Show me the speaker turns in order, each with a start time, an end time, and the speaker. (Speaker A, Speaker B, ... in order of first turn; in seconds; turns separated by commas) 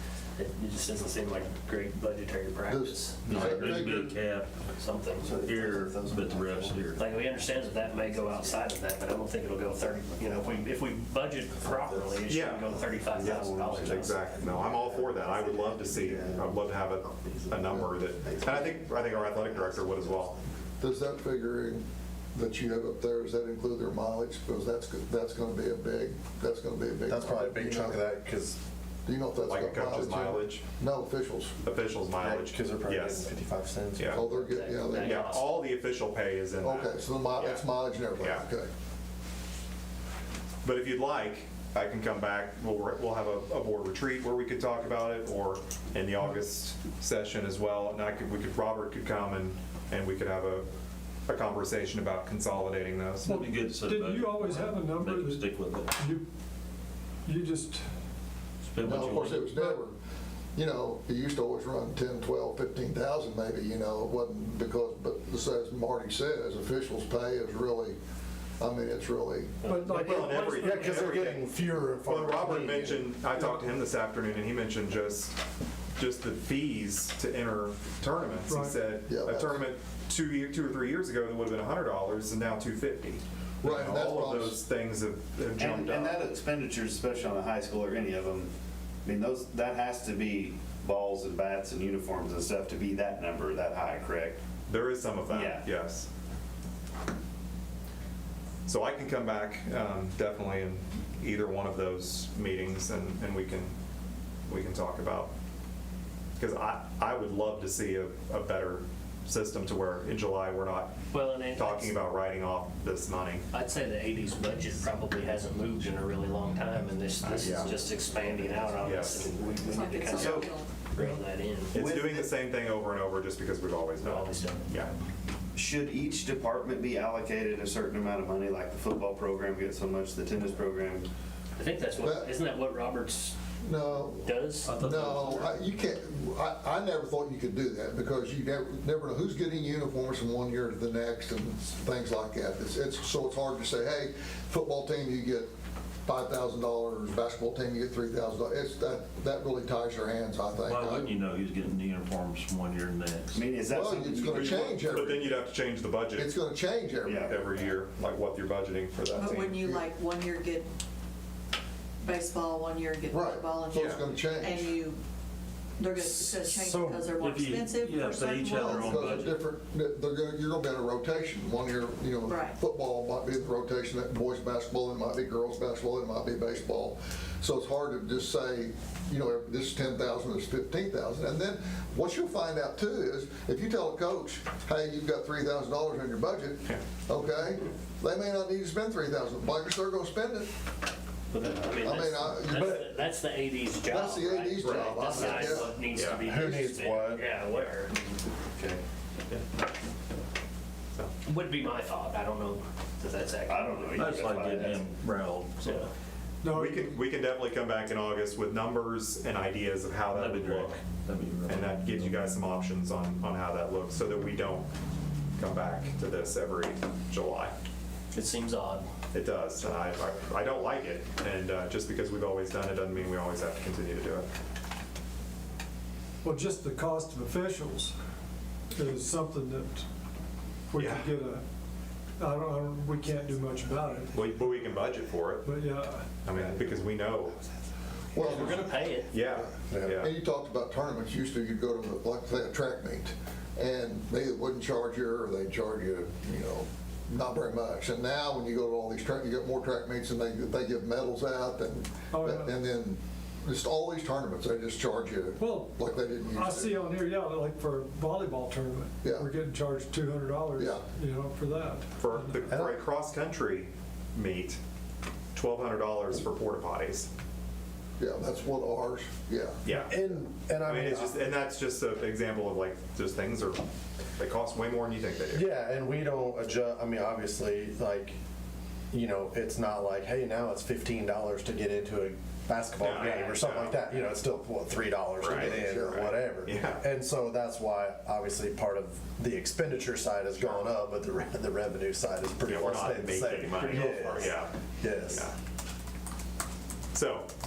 Speaker A: 0.4-3.6, Speaker B: 2.7-4.2, Speaker C: 3.2-4.5, Speaker A: 4.8-5.3, Speaker D: 5.3-6.8, Speaker C: 5.3-7.1, Speaker A: 6.9-14.2, Speaker D: 8.1-8.4, Speaker E: 12.3-20.4, Speaker D: 13.4-13.7, Speaker D: 14.5-16.4, Speaker B: 20.8-28.1, Speaker F: 27.1-28.6, Speaker B: 29.1-31.6, Speaker E: 29.4-30.7, Speaker E: 31.6-33.3, Speaker F: 32.2-34.2, Speaker E: 34.0-34.2, Speaker B: 34.1-35.4, Speaker A: 34.2-35.5, Speaker E: 35.0-38.5, Speaker B: 36.6-38.7, Speaker E: 40.6-50.7, Speaker E: 51.3-53.3, Speaker C: 53.2-55.9, Speaker G: 53.2-56.2, Speaker G: 57.2-57.9, Speaker C: 58.6-59.6, Speaker B: 58.8-60.0, Speaker B: 60.5-68.0, Speaker B: 68.6-69.6, Speaker A: 69.6-71.2, Speaker G: 69.6-70.9, Speaker E: 69.9-75.4, Speaker F: 70.5-73.1, Speaker E: 76.0-86.2, Speaker G: 78.4-78.8, Speaker B: 79.1-79.7, Speaker B: 83.6-84.6, Speaker D: 85.6-88.5, Speaker D: 89.0-94.4, Speaker E: 94.7-96.1, Speaker D: 95.3-95.6, Speaker E: 98.7-103.7, Speaker E: 104.5-105.3, Speaker E: 106.4-111.0, Speaker A: 111.1-112.0, Speaker E: 111.5-113.4, Speaker A: 113.5-122.0, Speaker E: 117.2-117.7, Speaker E: 118.8-119.3, Speaker H: 119.7-120.7, Speaker E: 120.2-120.5, Speaker E: 121.7-124.9, Speaker A: 124.0-124.7, Speaker D: 125.5-131.1, Speaker A: 131.6-133.3, Speaker B: 132.0-132.3, Speaker B: 133.6-145.5, Speaker A: 134.2-134.7, Speaker C: 134.6-135.6, Speaker B: 146.0-151.1, Speaker C: 150.6-153.8, Speaker D: 153.3-154.8, Speaker B: 153.6-155.4, Speaker E: 154.3-156.3, Speaker B: 156.1-157.5, Speaker D: 157.0-157.3, Speaker E: 157.2-159.6, Speaker H: 159.1-160.7, Speaker H: 162.0-165.0, Speaker B: 163.1-164.8, Speaker E: 163.7-164.0, Speaker H: 165.8-169.1, Speaker F: 166.0-167.0, Speaker C: 166.7-169.4, Speaker B: 168.6-190.5, Speaker H: 172.2-172.6, Speaker A: 191.3-198.0, Speaker B: 191.8-193.0, Speaker B: 193.9-195.7, Speaker E: 194.6-196.2, Speaker F: 196.2-197.2, Speaker D: 198.5-198.8, Speaker A: 201.2-204.4, Speaker D: 203.4-204.8, Speaker C: 203.9-205.9, Speaker A: 205.6-205.9, Speaker G: 206.4-207.0, Speaker E: 206.5-210.8, Speaker C: 210.1-212.2, Speaker E: 211.4-214.7, Speaker E: 215.4-217.5, Speaker A: 218.1-218.9, Speaker E: 219.1-224.3, Speaker G: 226.2-227.9, Speaker G: 228.7-229.9, Speaker G: 230.7-231.4, Speaker E: 230.8-231.1, Speaker G: 232.2-234.3, Speaker E: 234.1-235.6, Speaker G: 235.4-236.1, Speaker E: 236.2-237.4, Speaker B: 238.1-256.8, Speaker A: 238.2-239.1, Speaker E: 238.3-238.6, Speaker E: 239.1-240.1, Speaker F: 239.7-240.0, Speaker G: 252.1-252.5, Speaker G: 255.4-262.5, Speaker B: 259.0-259.3, Speaker B: 260.6-260.8, Speaker E: 262.0-264.6, Speaker F: 262.5-262.7, Speaker E: 265.3-267.1, Speaker B: 268.0-269.9, Speaker E: 269.6-273.6, Speaker F: 269.9-271.2, Speaker E: 274.2-275.5, Speaker F: 275.3-278.1, Speaker F: 278.9-295.3, Speaker E: 282.8-283.8, Speaker E: 285.2-286.8, Speaker E: 292.4-294.5, Speaker E: 295.1-295.3, Speaker E: 296.9-297.3